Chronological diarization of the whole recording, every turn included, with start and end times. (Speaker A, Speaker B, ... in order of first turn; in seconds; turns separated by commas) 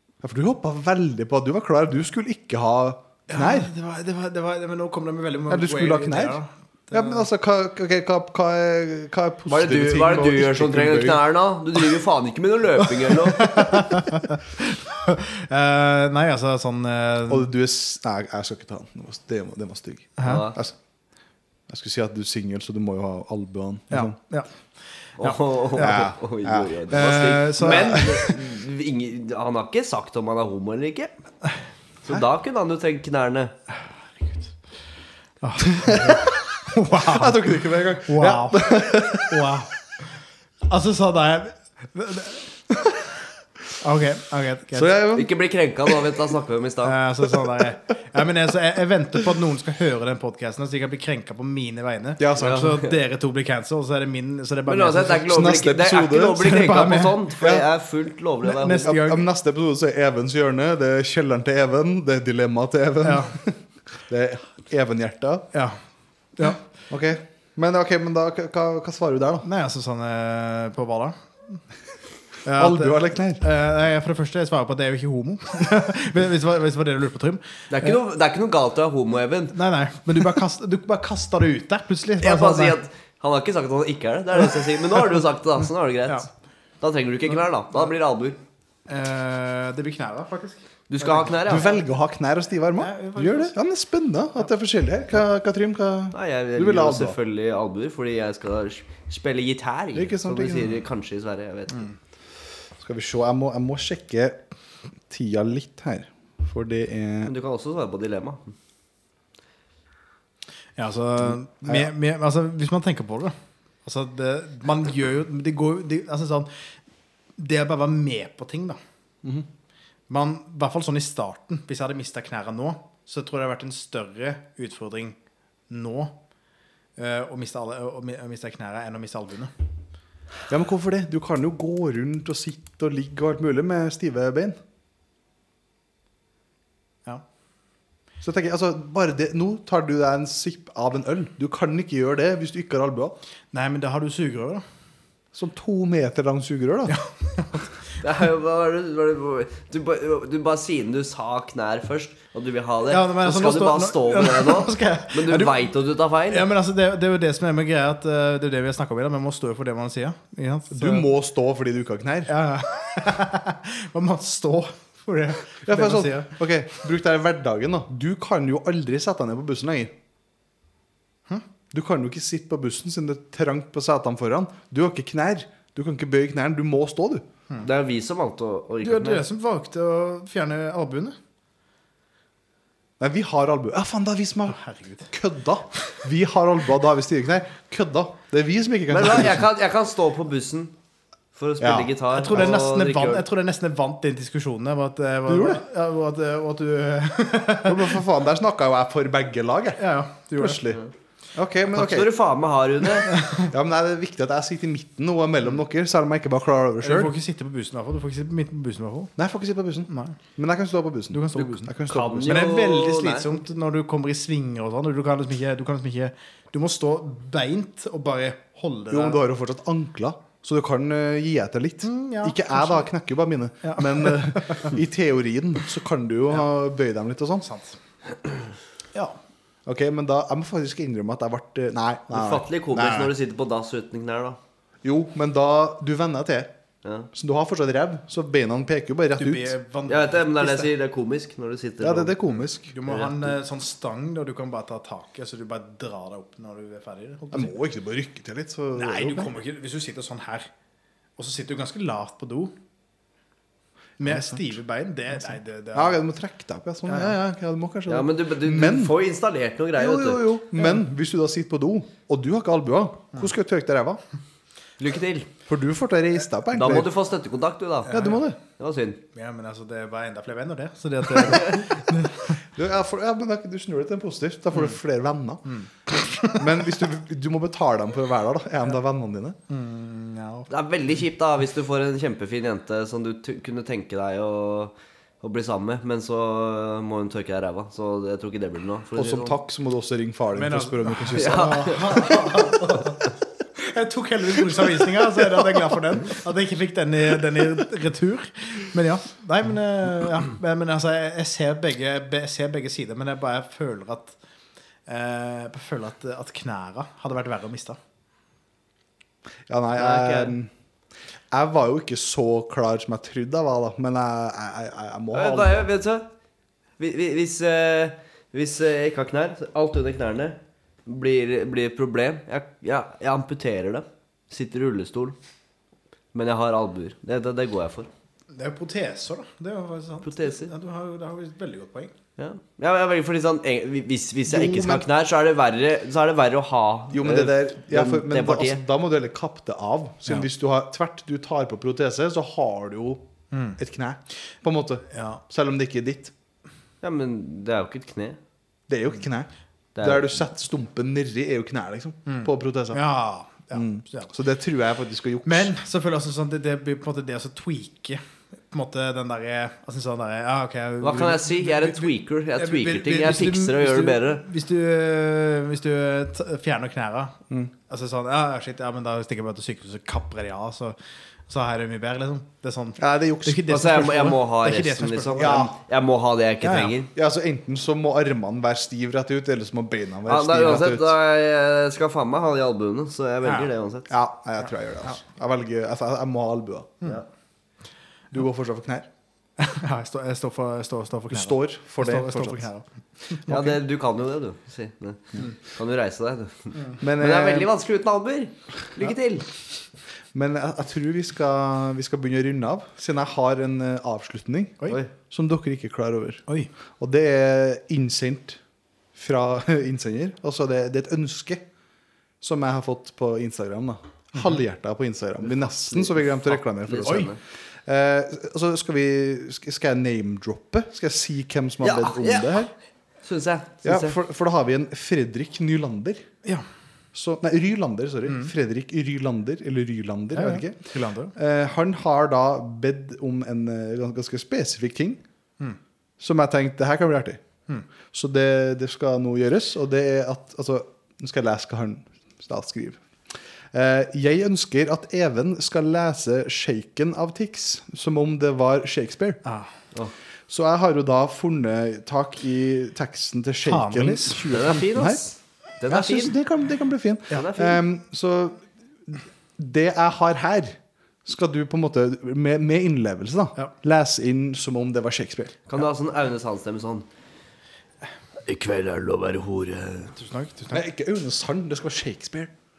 Speaker A: 0.2-3.7, Speaker B: 3.3-7.3, Speaker A: 5.5-6.4, Speaker A: 6.9-11.2, Speaker C: 9.5-13.8, Speaker B: 13.1-17.5, Speaker A: 17.3-20.8, Speaker B: 20.2-20.5, Speaker C: 20.2-20.6, Speaker A: 21.7-24.2, Speaker B: 23.9-24.5, Speaker B: 25.2-26.1, Speaker C: 25.2-31.1, Speaker A: 25.8-26.8, Speaker B: 26.9-28.4, Speaker A: 27.7-28.0, Speaker C: 32.0-33.5, Speaker B: 34.2-34.5, Speaker B: 35.4-39.7, Speaker A: 35.7-36.3, Speaker A: 37.0-39.6, Speaker B: 40.7-43.1, Speaker B: 43.8-45.0, Speaker A: 44.7-45.3, Speaker C: 45.1-47.0, Speaker B: 46.8-55.3, Speaker A: 52.2-52.8, Speaker C: 52.4-52.9, Speaker C: 54.7-58.9, Speaker A: 55.3-57.7, Speaker B: 56.4-57.2, Speaker B: 58.5-59.2, Speaker A: 58.6-65.5, Speaker B: 63.0-63.4, Speaker A: 66.9-69.5, Speaker B: 69.4-71.6, Speaker B: 72.5-78.0, Speaker A: 72.6-73.4, Speaker C: 77.7-79.6, Speaker B: 79.5-82.8, Speaker C: 82.2-86.3, Speaker C: 86.8-88.4, Speaker B: 88.9-91.8, Speaker C: 90.9-91.7, Speaker A: 91.4-97.2, Speaker B: 92.8-93.6, Speaker C: 96.1-101.9, Speaker A: 100.0-100.8, Speaker A: 102.8-104.4, Speaker A: 105.1-107.3, Speaker C: 107.2-108.6, Speaker B: 110.8-113.3, Speaker A: 111.6-111.9, Speaker B: 113.8-116.5, Speaker B: 117.4-118.8, Speaker B: 120.1-125.2, Speaker B: 125.7-126.2, Speaker B: 127.0-129.5, Speaker A: 130.5-134.6, Speaker A: 138.2-143.2, Speaker B: 143.5-144.6, Speaker A: 145.3-147.0, Speaker B: 146.9-147.7, Speaker C: 148.0-156.5, Speaker B: 152.9-155.7, Speaker B: 156.3-161.1, Speaker A: 160.7-162.3, Speaker B: 162.3-166.4, Speaker A: 165.7-169.9, Speaker A: 171.7-177.2, Speaker C: 177.6-179.3, Speaker B: 178.8-181.2, Speaker A: 183.0-189.5, Speaker B: 184.5-185.1, Speaker C: 188.9-190.7, Speaker C: 191.3-193.3, Speaker A: 191.6-191.9, Speaker B: 192.1-198.0, Speaker A: 195.3-195.6, Speaker A: 197.7-199.8, Speaker B: 199.8-200.7, Speaker A: 200.4-200.8, Speaker A: 201.3-202.1, Speaker C: 201.7-203.1, Speaker B: 203.0-203.5, Speaker A: 203.4-207.1, Speaker B: 206.8-209.1, Speaker A: 209.2-212.4, Speaker B: 209.9-210.2, Speaker B: 211.1-211.8, Speaker C: 211.9-213.3, Speaker B: 212.3-219.2, Speaker A: 218.9-227.5, Speaker B: 221.8-222.9, Speaker B: 223.6-224.8, Speaker B: 227.4-227.8, Speaker A: 229.7-233.1, Speaker C: 232.1-234.4, Speaker A: 234.8-236.5, Speaker C: 236.8-237.1, Speaker A: 237.1-239.6, Speaker B: 239.2-240.7, Speaker C: 239.9-242.2, Speaker A: 241.8-242.7, Speaker B: 242.7-247.5, Speaker C: 242.9-243.3, Speaker A: 247.3-249.3, Speaker B: 248.8-250.5, Speaker B: 251.2-252.5, Speaker B: 254.0-256.0, Speaker A: 254.0-254.6, Speaker A: 255.7-258.9, Speaker B: 256.9-257.2, Speaker C: 257.9-260.4, Speaker A: 259.8-264.0, Speaker C: 264.8-265.3, Speaker A: 265.5-266.9, Speaker C: 266.5-268.0, Speaker B: 267.9-268.2, Speaker A: 267.9-268.4, Speaker C: 268.6-269.0, Speaker B: 269.1-272.4, Speaker A: 272.6-275.5, Speaker B: 275.5-276.4, Speaker A: 276.3-279.4, Speaker B: 279.5-280.5, Speaker C: 280.5-289.4, Speaker A: 289.0-292.4, Speaker B: 290.3-304.2, Speaker C: 291.1-292.2, Speaker B: 304.9-307.8, Speaker A: 309.5-310.5, Speaker C: 309.8-310.4, Speaker A: 311.3-315.7, Speaker C: 315.1-316.0, Speaker C: 316.8-325.1, Speaker C: 326.1-327.9, Speaker B: 328.3-331.9, Speaker C: 330.1-330.5, Speaker C: 332.2-338.6, Speaker A: 334.3-334.9, Speaker A: 336.9-343.0, Speaker B: 343.3-343.6, Speaker A: 343.6-346.1, Speaker B: 344.9-345.2, Speaker C: 346.8-348.2, Speaker A: 348.7-349.3, Speaker C: 349.8-350.2, Speaker A: 349.8-352.8, Speaker B: 352.1-354.1, Speaker A: 353.5-355.5, Speaker B: 355.2-370.8, Speaker C: 360.8-364.2, Speaker B: 371.3-375.5, Speaker A: 372.8-374.1, Speaker C: 373.5-376.9, Speaker A: 375.2-375.5, Speaker B: 376.4-376.8, Speaker A: 376.9-381.0, Speaker C: 380.1-383.9, Speaker B: 383.2-383.5, Speaker A: 383.9-386.9, Speaker A: 388.1-388.9, Speaker B: 389.4-393.3, Speaker A: 391.1-392.5, Speaker C: 393.3-399.3, Speaker A: 393.3-393.6, Speaker A: 396.8-397.5, Speaker A: 400.1-406.2, Speaker A: 406.8-408.4, Speaker A: 408.9-411.4, Speaker A: 412.2-417.1, Speaker C: 415.3-417.2, Speaker B: 416.8-417.1, Speaker A: 417.6-422.5, Speaker C: 421.6-422.5, Speaker C: 423.0-424.0, Speaker A: 423.6-426.1, Speaker A: 426.9-430.6, Speaker B: 430.1-431.1, Speaker A: 431.1-435.0, Speaker A: 436.0-437.2, Speaker A: 437.9-442.8, Speaker A: 443.5-449.2, Speaker B: 449.2-449.5, Speaker A: 450.3-455.0, Speaker B: 453.4-454.2, Speaker C: 454.3-456.2, Speaker A: 455.7-465.4, Speaker C: 457.1-457.6, Speaker C: 465.5-466.9, Speaker C: 468.3-469.9, Speaker B: 469.9-470.6, Speaker A: 470.5-472.3